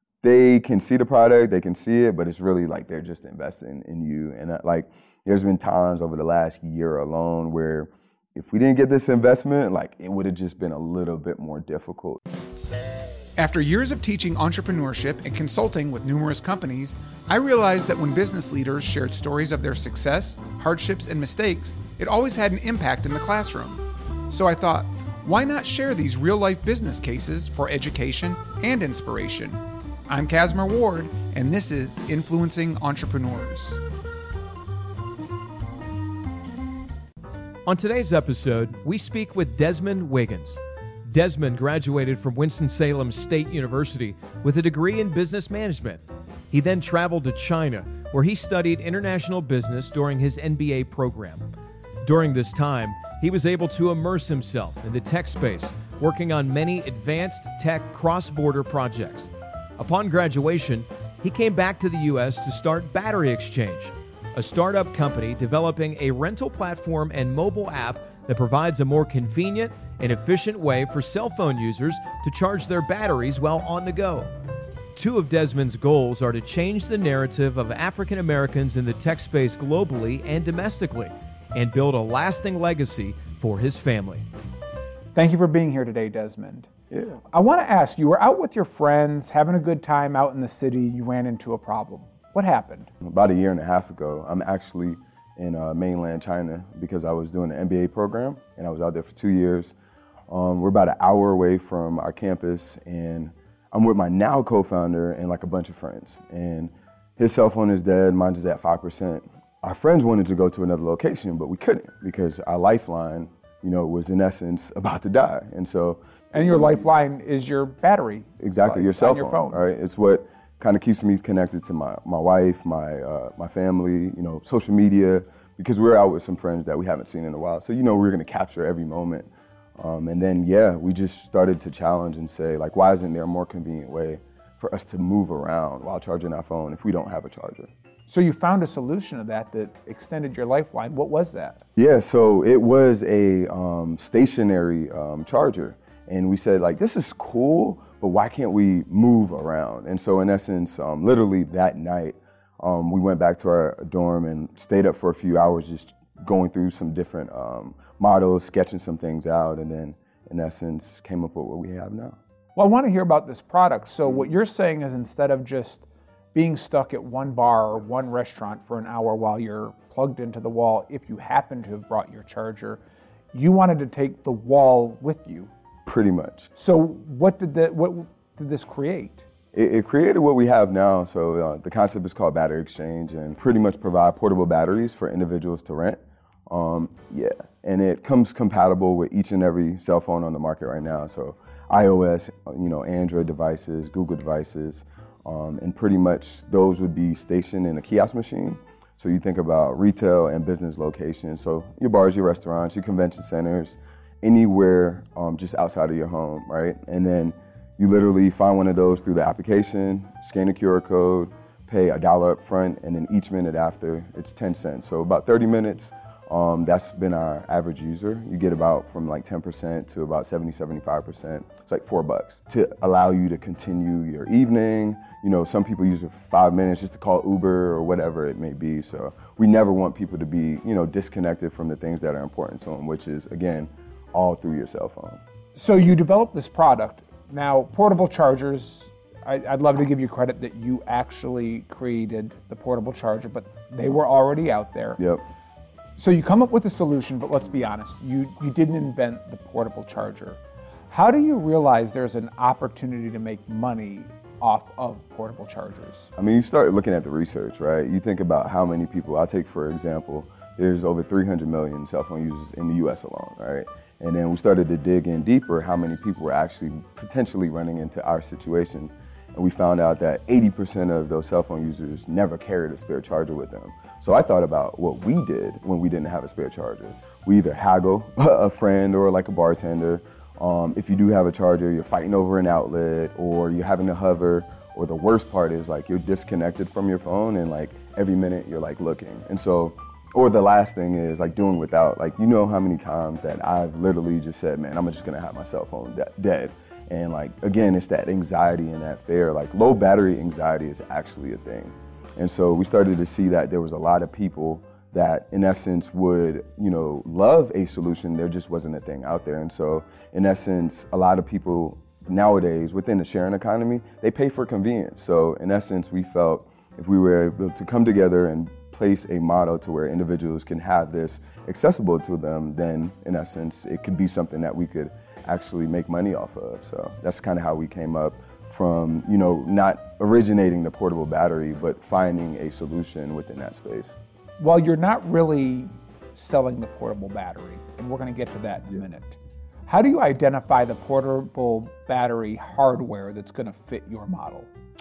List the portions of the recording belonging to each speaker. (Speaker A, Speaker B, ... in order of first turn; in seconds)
Speaker A: 0.2-12.2, 93.0-99.7, 100.3-116.0, 118.4-137.7, 141.8-162.2, 175.8-176.5, 179.5-235.2, 245.0-245.2, 256.2-333.9
Speaker B: 13.4-33.8, 85.1-92.9, 116.3-119.6, 138.1-141.6, 162.6-172.8, 173.3-175.5, 176.6-179.2, 235.5-245.0, 246.0-256.1, 334.4-344.5
Speaker C: 37.6-51.5, 52.0-74.3, 74.9-84.2